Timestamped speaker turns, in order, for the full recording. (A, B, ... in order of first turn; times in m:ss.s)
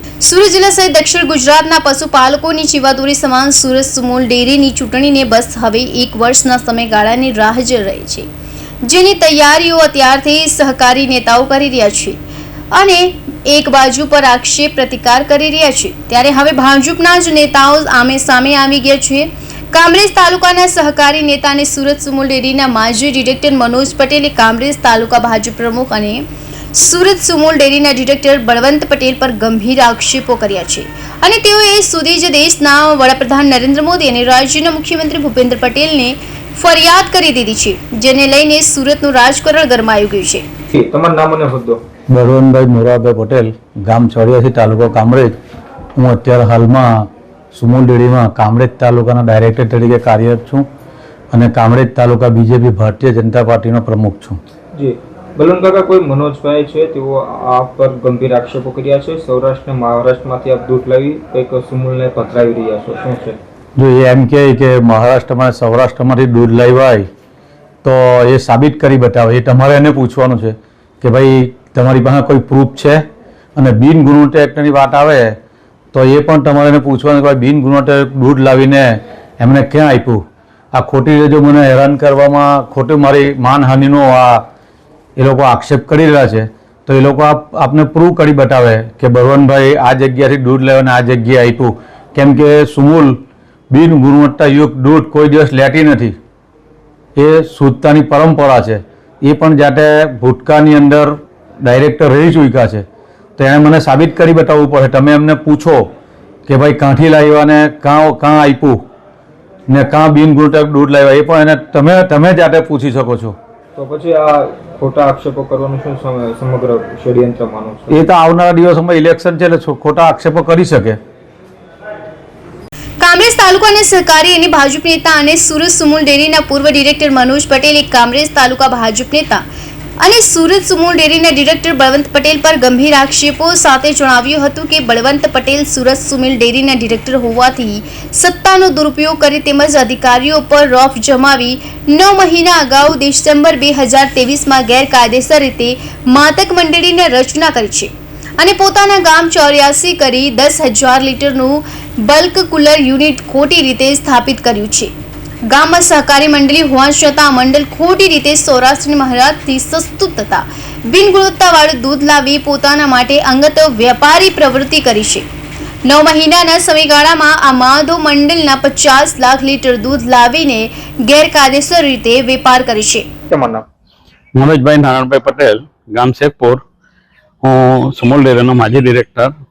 0:00.2-0:08.3 A
0:08.8-0:12.2 A
0:12.7-0:40.4 A
0:40.7-0:41.8 B
0:42.1-0:45.3 C
0:46.0-0:50.6 C
0:51.3-0:54.4 C
0:54.7-1:03.4 B
1:03.8-1:07.0 C
1:07.8-1:13.0 C
1:13.6-1:15.4 C
1:15.9-1:20.2 C
1:20.7-1:24.5 C
1:25.2-1:33.2 C
1:33.7-1:36.2 C
1:37.2-1:42.8 C
1:43.4-1:45.9 C
1:46.5-1:48.8 C
1:49.7-1:53.3 C
1:53.8-1:58.0 B
1:57.9-2:01.0 C
2:03.0-2:09.4 A
2:10.0-2:34.9 A
2:35.5-2:45.2 A
2:45.8-2:53.0 A
2:53.3-2:53.6 B
2:54.3-2:56.6 D
2:57.4-2:59.3 D